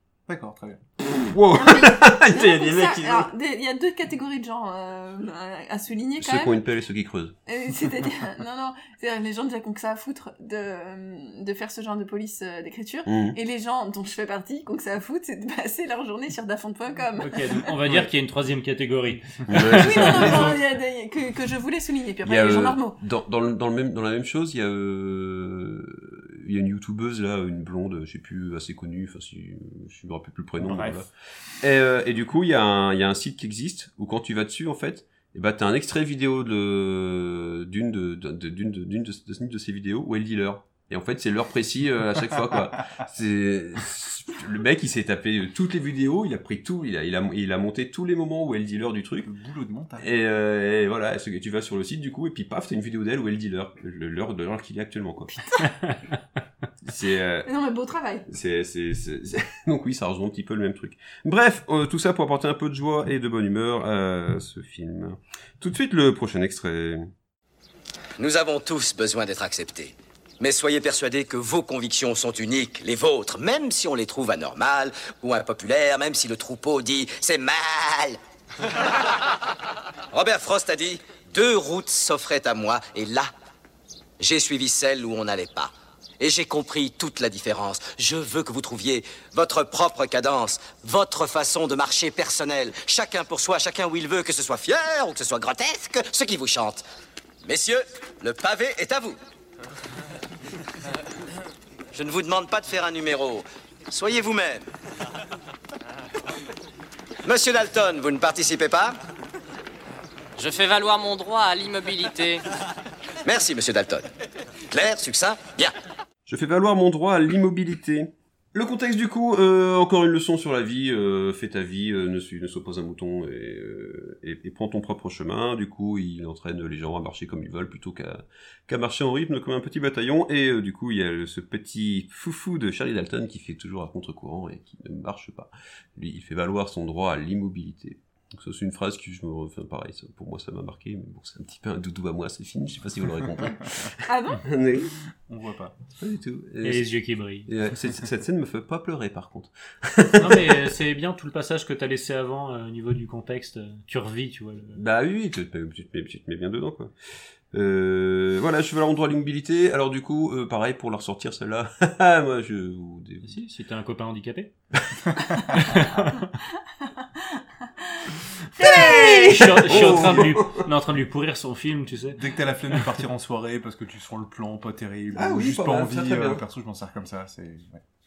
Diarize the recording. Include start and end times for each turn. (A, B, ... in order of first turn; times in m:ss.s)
0:00.3-0:00.8 A
0:01.0-0:03.3 B
0:01.5-0:06.6 C
0:06.2-0:07.4 B
0:07.5-0:17.4 C
0:13.1-0:13.4 B
0:17.2-0:20.6 D
0:19.5-0:20.6 B
0:19.8-0:23.0 C
0:22.2-0:31.1 B
0:30.6-0:31.0 D
0:31.6-0:49.3 B
0:49.2-0:50.1 A
0:50.0-0:55.4 B
0:55.3-0:55.7 C
0:56.8-0:57.5 B
0:57.4-0:58.3 C
0:58.3-1:07.1 B
1:08.2-1:18.2 E
1:20.1-1:23.3 E
1:24.2-1:36.9 E
1:37.4-1:39.2 E
1:41.9-1:44.7 E
1:47.2-1:49.0 E
1:50.4-1:52.4 F
1:53.2-1:54.1 E
1:54.7-1:55.7 E
1:56.3-2:25.0 B
2:24.1-2:24.4 C
2:25.3-2:25.7 A
2:26.0-2:26.9 B
2:26.6-2:27.5 D
2:27.5-2:30.5 B
2:30.2-2:34.8 D
2:34.8-2:36.9 B
2:37.5-2:43.4 B
2:43.2-2:44.5 D
2:45.5-2:46.3 D
2:48.6-2:49.8 C
2:48.6-2:52.8 D
2:48.9-2:50.7 B
2:52.1-2:57.8 A
2:55.1-2:56.4 B